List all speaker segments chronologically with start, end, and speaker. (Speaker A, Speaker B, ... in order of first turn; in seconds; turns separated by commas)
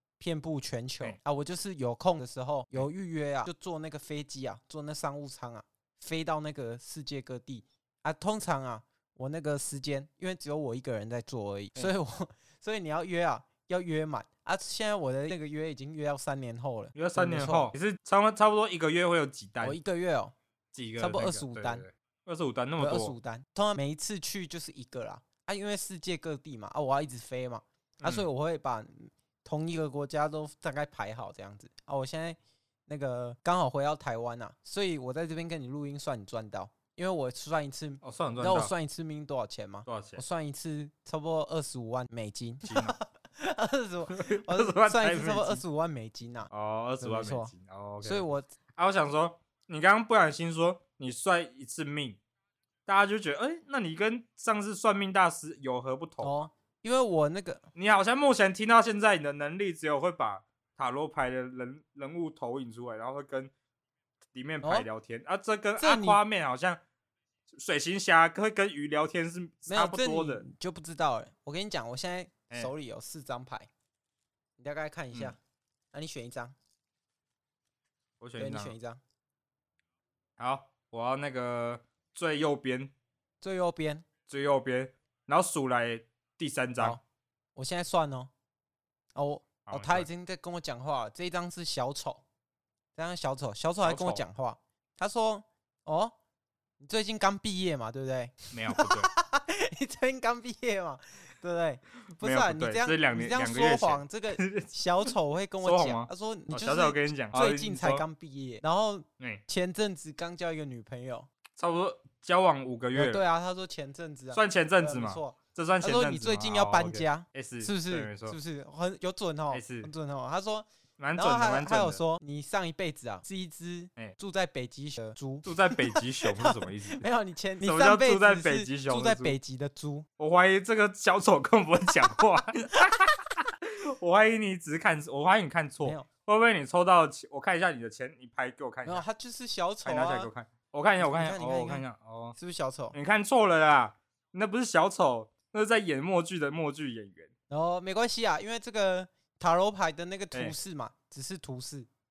Speaker A: 0.2-17.7, Speaker B: 16.9-19.8, Speaker A: 19.6-20.3, Speaker B: 20.7-23.1, Speaker A: 21.0-21.8, Speaker A: 22.8-48.5, Speaker B: 28.0-28.3, Speaker B: 38.0-38.7, Speaker B: 39.9-40.2, Speaker B: 42.6-43.0, Speaker B: 44.1-45.6, Speaker B: 46.5-52.2, Speaker B: 52.9-56.5, Speaker A: 56.2-57.7, Speaker B: 57.7-63.5, Speaker B: 64.3-66.8, Speaker A: 65.8-66.2, Speaker B: 67.5-70.4, Speaker A: 69.7-73.7, Speaker A: 74.6-75.4, Speaker A: 75.9-76.5, Speaker B: 78.2-78.7, Speaker A: 78.4-79.0, Speaker B: 80.4-82.9, Speaker A: 83.4-84.0, Speaker B: 84.3-87.0, Speaker A: 87.5-88.3, Speaker A: 89.1-92.2, Speaker B: 89.7-90.1, Speaker A: 93.0-96.1, Speaker B: 93.8-94.2, Speaker A: 96.8-111.3, Speaker B: 98.5-99.1, Speaker B: 102.2-108.0, Speaker B: 111.6-113.2, Speaker A: 112.9-130.1, Speaker B: 114.3-118.3, Speaker B: 119.5-119.9, Speaker B: 121.0-122.0, Speaker B: 125.4-127.0, Speaker B: 127.6-129.4, Speaker B: 130.2-139.0, Speaker A: 138.8-140.3, Speaker B: 139.8-142.3, Speaker A: 141.0-142.9, Speaker B: 142.9-147.3, Speaker A: 147.5-151.9